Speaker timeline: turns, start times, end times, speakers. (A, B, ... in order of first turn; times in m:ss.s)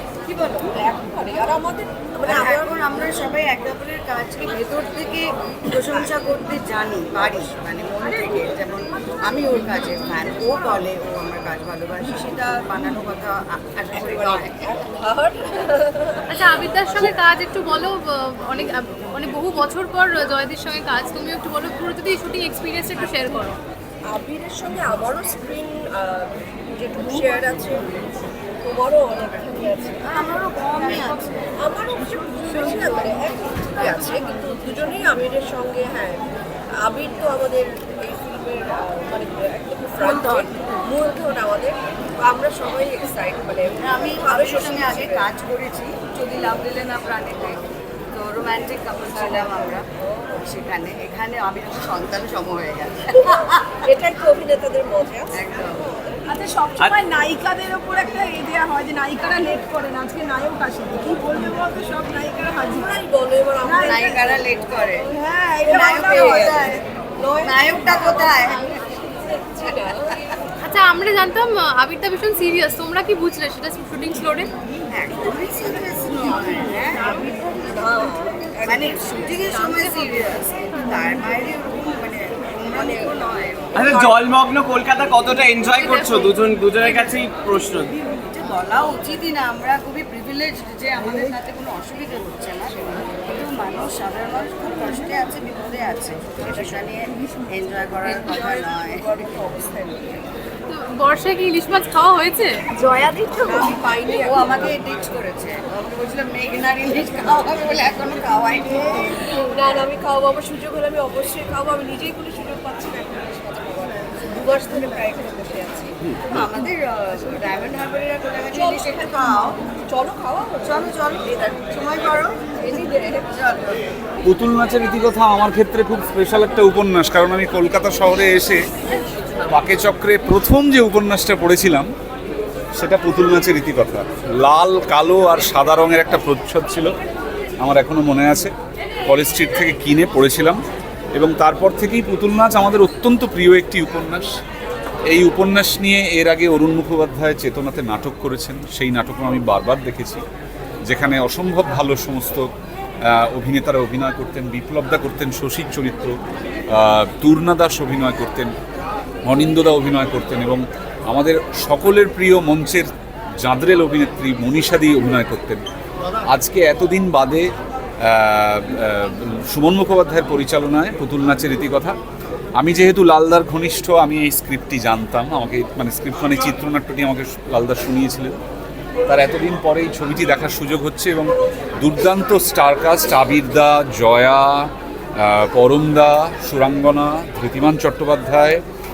0:00.3-0:02.8 A
0:02.3-0:14.6 B
0:14.0-0:16.3 A
0:16.3-0:23.6 C
0:24.1-0:27.9 A
0:28.6-0:30.3 A
0:30.1-0:31.5 B
0:31.6-0:36.2 A
0:36.8-0:45.3 A
0:43.8-0:49.8 B
0:50.4-0:53.5 B
0:53.1-0:55.5 A
0:55.3-0:56.0 B
0:56.4-0:57.2 A
0:56.8-0:57.1 D
0:56.9-1:02.8 E
0:59.2-1:00.4 A
1:01.0-1:10.3 A
1:03.6-1:05.1 B
1:05.7-1:06.8 B
1:07.4-1:08.7 B
1:10.6-1:14.5 C
1:14.9-1:17.3 B
1:17.1-1:20.4 A
1:18.6-1:24.3 B
1:23.8-1:27.9 D
1:28.0-1:39.4 B
1:38.1-1:40.2 A
1:40.7-1:42.6 C
1:42.8-1:44.3 A
1:43.2-1:49.2 B
1:49.4-1:56.4 A
1:56.4-1:59.6 B
1:58.5-1:59.3 A
1:59.9-2:03.5 A
2:00.4-2:03.8 B
2:04.2-2:08.6 F
2:09.5-2:11.9 F
2:12.8-2:16.9 F
2:17.6-2:18.5 F
2:19.1-2:20.6 F
2:21.2-2:24.3 F
2:25.1-2:30.2 F
2:30.9-2:32.5 F
2:33.1-2:36.1 F
2:36.7-2:38.5 F
2:39.2-2:42.9 F
2:43.4-2:45.6 F
2:46.3-2:47.5 F
2:48.0-2:52.0 F
2:52.6-2:58.4 F
2:59.1-3:08.6 F